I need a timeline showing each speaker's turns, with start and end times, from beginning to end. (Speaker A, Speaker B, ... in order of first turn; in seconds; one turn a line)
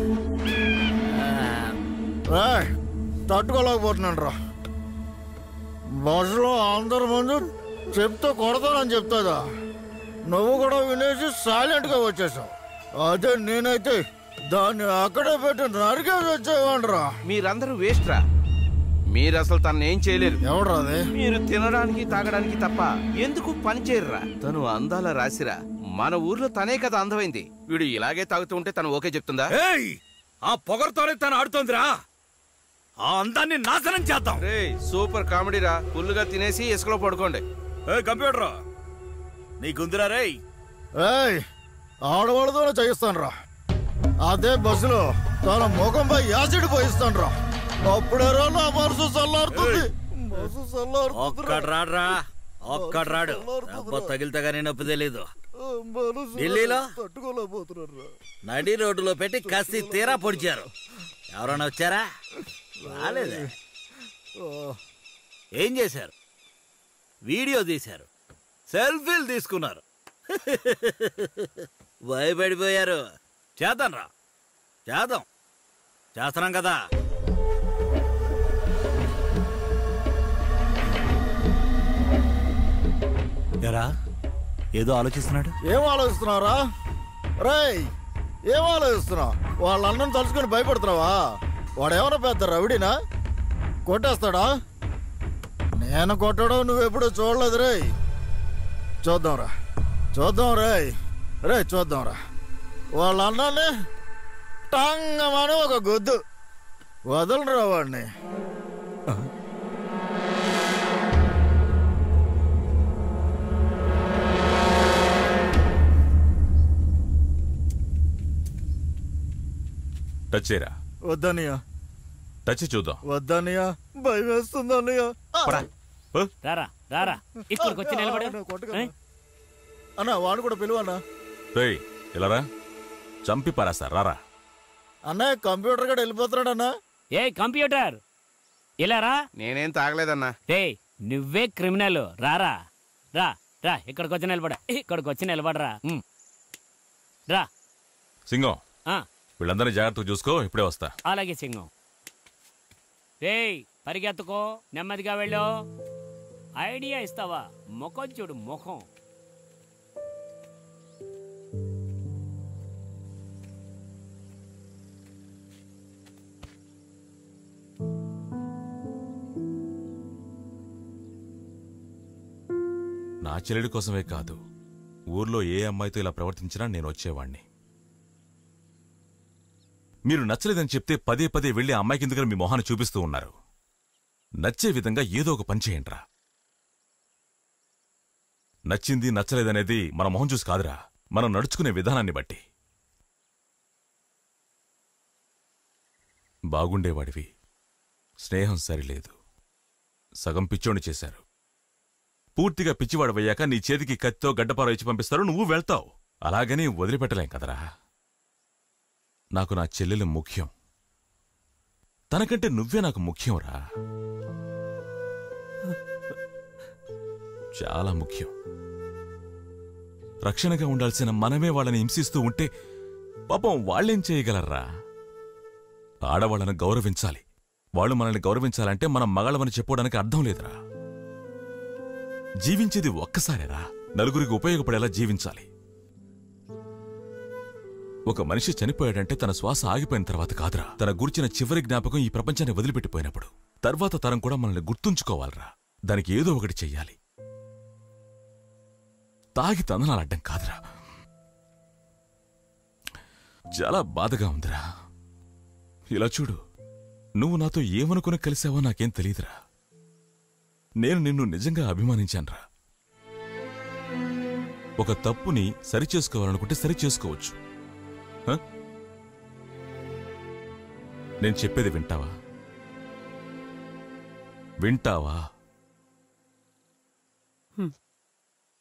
Speaker A: 2.3-2.7
Speaker A: 3.3-4.3
Speaker A: 6.0-7.4
Speaker A: 7.9-9.4
Speaker A: 10.3-17.1
Speaker B: 17.3-18.2
Speaker B: 19.1-20.4
Speaker A: 20.4-21.0
Speaker B: 21.1-29.5
Speaker C: 29.5-32.0
Speaker C: 33.0-34.4
Speaker B: 34.4-37.4
Speaker C: 37.9-38.6
Speaker C: 39.6-40.4
Speaker A: 41.0-41.4
Speaker A: 42.1-43.3
Speaker A: 44.2-47.3
Speaker A: 47.9-51.8
Speaker C: 49.5-49.9
Speaker C: 51.1-55.3
Speaker A: 52.7-54.2
Speaker A: 55.6-58.1
Speaker C: 56.4-56.9
Speaker C: 58.4-60.7
Speaker A: 59.4-60.6
Speaker C: 61.3-62.1
Speaker C: 62.8-63.5
Speaker A: 62.9-63.5
Speaker A: 64.4-64.8
Speaker C: 65.6-66.1
Speaker C: 67.2-68.1
Speaker C: 68.7-73.0
Speaker C: 73.6-74.1
Speaker C: 74.9-75.3
Speaker C: 76.2-76.8
Speaker C: 83.6-83.9
Speaker C: 84.8-85.5
Speaker A: 85.7-86.6
Speaker A: 87.4-87.9
Speaker A: 88.5-91.2
Speaker A: 91.8-92.9
Speaker A: 93.9-94.5
Speaker A: 95.8-97.9
Speaker A: 99.0-99.5
Speaker A: 100.1-100.9
Speaker A: 101.5-102.2
Speaker A: 103.0-103.7
Speaker A: 104.7-106.2
Speaker A: 107.1-108.1
Speaker D: 120.3-120.7
Speaker A: 121.1-121.6
Speaker D: 122.5-123.0
Speaker A: 123.1-125.6
Speaker E: 126.4-128.9
Speaker A: 127.5-128.8
Speaker A: 130.0-131.0
Speaker D: 131.5-132.4
Speaker D: 133.2-134.2
Speaker A: 135.1-136.7
Speaker E: 137.2-138.0
Speaker E: 138.8-139.2
Speaker B: 139.4-140.3
Speaker E: 140.5-142.6
Speaker E: 143.2-146.0
Speaker D: 148.3-148.6
Speaker D: 149.4-150.9
Speaker E: 151.1-151.7
Speaker E: 153.2-155.5
Speaker E: 156.6-158.8
Speaker D: 173.2-174.4
Speaker D: 175.1-177.4
Speaker D: 180.1-183.3
Speaker D: 184.4-186.0
Speaker D: 188.7-192.4
Speaker D: 196.5-197.3
Speaker D: 198.2-199.1
Speaker D: 200.2-201.2
Speaker D: 202.4-207.6
Speaker D: 209.4-210.5
Speaker D: 212.1-213.6
Speaker D: 217.6-218.3
Speaker D: 220.3-222.5
Speaker D: 223.3-224.6
Speaker D: 226.1-227.2
Speaker D: 227.8-230.6
Speaker D: 232.4-235.5
Speaker D: 238.1-247.0
Speaker D: 249.4-250.6
Speaker D: 253.6-254.6
Speaker D: 255.9-256.4
Speaker D: 257.2-259.4
Speaker D: 260.8-262.4
Speaker D: 264.8-267.4
Speaker D: 271.2-272.1
Speaker D: 274.6-275.2